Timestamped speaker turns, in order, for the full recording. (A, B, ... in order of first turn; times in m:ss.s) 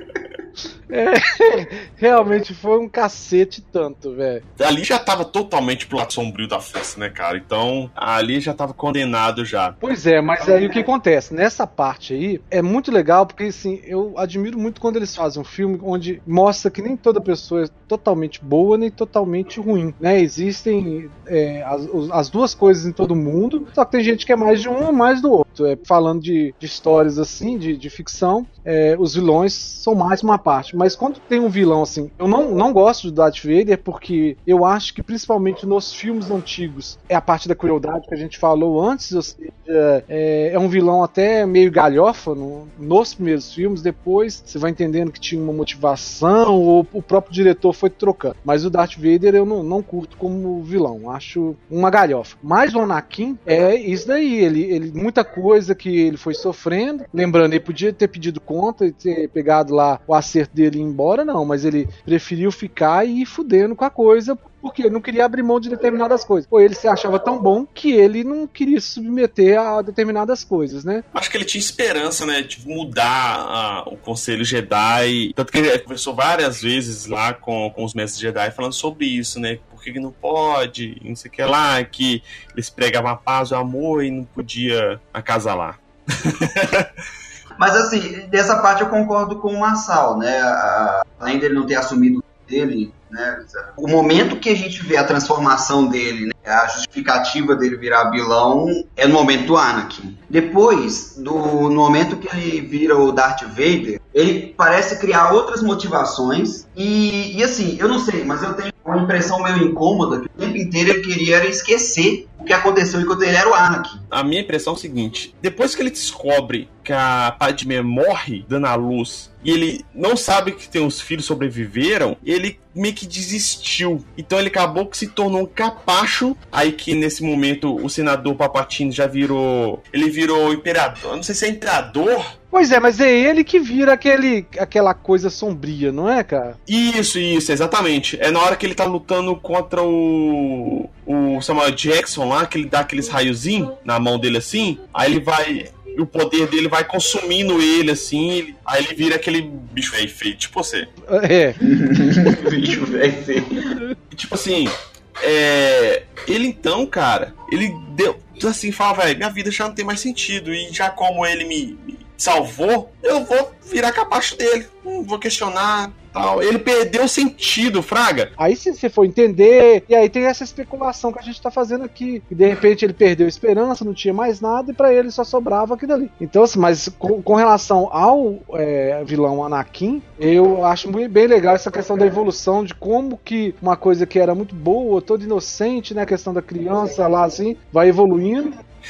0:00.9-0:04.4 A
0:04.6-0:09.8 B
0:09.8-1:11.0 A
1:11.1-1:26.9 B
1:27.6-1:54.0 C
1:54.1-2:12.3 B
2:12.5-2:16.6 A
2:16.7-2:30.9 B
2:31.0-2:31.6 A
2:31.6-2:33.8 C
2:34.1-2:48.3 B
2:48.4-3:08.6 A